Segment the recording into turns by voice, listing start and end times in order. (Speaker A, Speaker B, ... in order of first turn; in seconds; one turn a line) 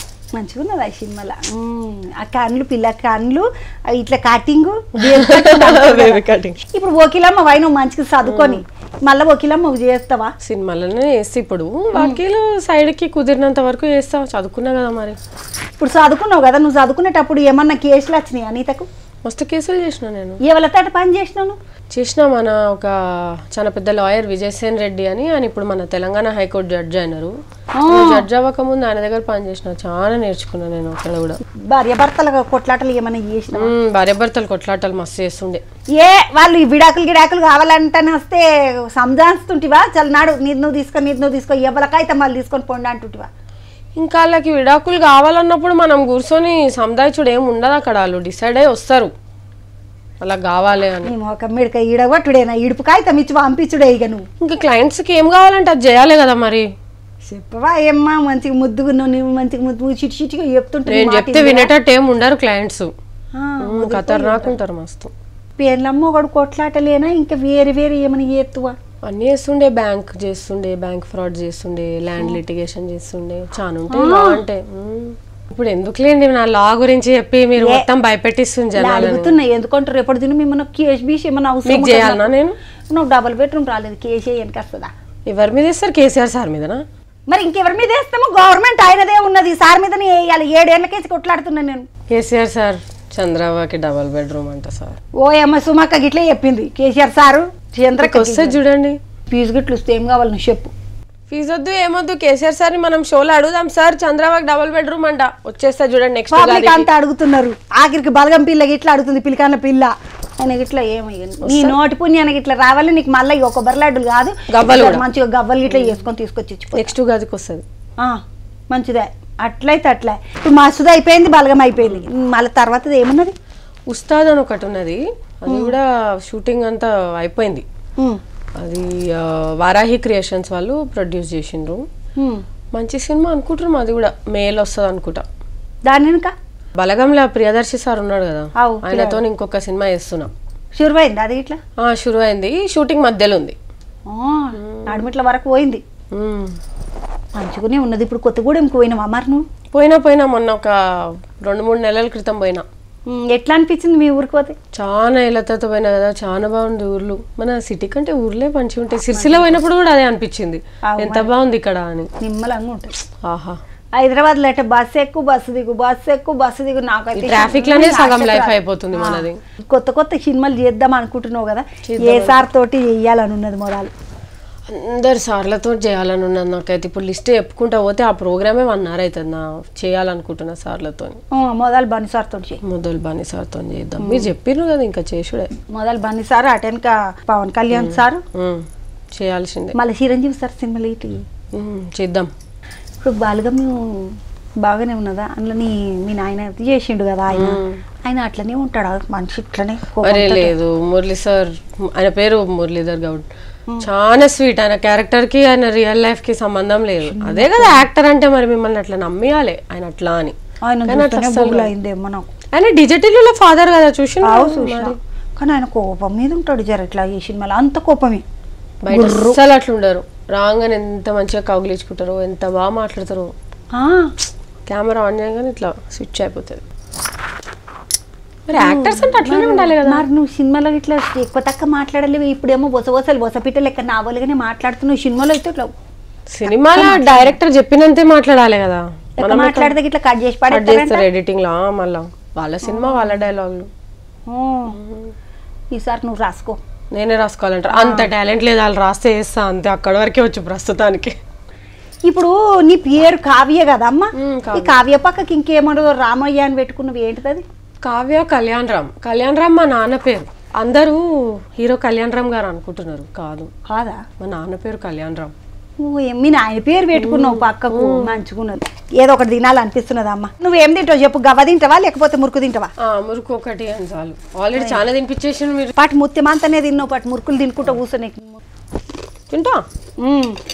Speaker A: 0.3-10.3
Speaker B: 5.0-6.6
Speaker B: 8.2-8.6
Speaker B: 10.4-15.2
Speaker A: 15.8-18.9
Speaker B: 19.2-20.4
Speaker A: 20.4-21.6
Speaker B: 21.9-27.3
Speaker A: 27.8-28.2
Speaker B: 27.9-31.4
Speaker A: 31.6-33.7
Speaker B: 33.5-35.6
Speaker A: 35.9-43.3
Speaker B: 44.0-49.1
Speaker B: 50.2-51.1
Speaker A: 51.0-54.2
Speaker B: 54.4-56.7
Speaker A: 57.3-61.7
Speaker B: 60.9-62.9
Speaker A: 63.3-64.5
Speaker B: 63.6-65.1
Speaker A: 65.6-68.8
Speaker B: 69.0-79.4
Speaker A: 73.9-74.4
Speaker A: 77.6-77.8
Speaker A: 78.7-82.3
Speaker B: 81.6-82.6
Speaker A: 82.9-84.9
Speaker B: 85.3-86.8
Speaker A: 87.3-91.9
Speaker B: 92.1-95.0
Speaker A: 95.2-98.6
Speaker B: 98.0-99.0
Speaker A: 99.3-100.7
Speaker B: 101.3-106.9
Speaker A: 106.3-116.9
Speaker B: 111.4-111.8
Speaker B: 114.5-115.0
Speaker B: 115.7-116.0
Speaker B: 116.7-117.6
Speaker A: 118.7-123.3
Speaker B: 121.8-122.1
Speaker B: 123.9-127.6
Speaker A: 125.5-125.7
Speaker B: 128.6-131.8
Speaker A: 132.2-132.4
Speaker B: 132.7-135.2
Speaker A: 135.8-136.3
Speaker B: 136.8-140.3
Speaker A: 138.6-139.2
Speaker A: 140.8-141.6
Speaker B: 141.8-143.6
Speaker A: 144.1-145.8
Speaker B: 144.6-145.1
Speaker B: 146.1-146.6
Speaker A: 147.3-149.4
Speaker B: 149.7-152.7
Speaker A: 153.1-154.6
Speaker B: 154.7-162.1
Speaker A: 159.1-159.6
Speaker A: 160.9-161.3
Speaker A: 162.2-162.9
Speaker B: 163.2-163.6
Speaker A: 163.9-173.9
Speaker B: 167.2-169.4
Speaker B: 171.8-172.4
Speaker B: 174.7-181.2
Speaker A: 181.3-182.6
Speaker B: 182.6-185.5
Speaker A: 184.0-184.3
Speaker A: 185.7-188.2
Speaker B: 187.7-189.8
Speaker A: 189.7-191.2
Speaker B: 191.5-192.3
Speaker A: 193.0-200.5
Speaker B: 197.3-197.8
Speaker B: 200.0-203.3
Speaker B: 203.8-210.3
Speaker A: 207.0-207.8
Speaker A: 210.6-212.3
Speaker B: 210.9-211.7
Speaker B: 212.5-215.0
Speaker A: 214.2-218.2
Speaker B: 218.8-223.3
Speaker A: 218.9-219.4
Speaker A: 223.7-224.1
Speaker B: 224.7-226.6
Speaker B: 228.5-230.0
Speaker A: 228.5-235.7
Speaker B: 236.3-239.7
Speaker A: 236.5-237.3
Speaker A: 239.2-241.1
Speaker B: 240.5-243.7
Speaker A: 242.6-243.2
Speaker A: 244.3-244.8
Speaker B: 244.7-245.1
Speaker A: 245.7-246.6
Speaker B: 246.9-251.2
Speaker A: 247.7-248.1
Speaker A: 252.1-257.4
Speaker B: 254.2-254.8
Speaker B: 257.8-263.5
Speaker A: 263.7-264.0
Speaker B: 264.2-265.3
Speaker A: 265.8-272.7
Speaker B: 266.9-268.2
Speaker B: 272.8-275.7
Speaker A: 274.6-274.8
Speaker A: 275.7-278.4
Speaker B: 279.3-279.6
Speaker A: 280.0-280.4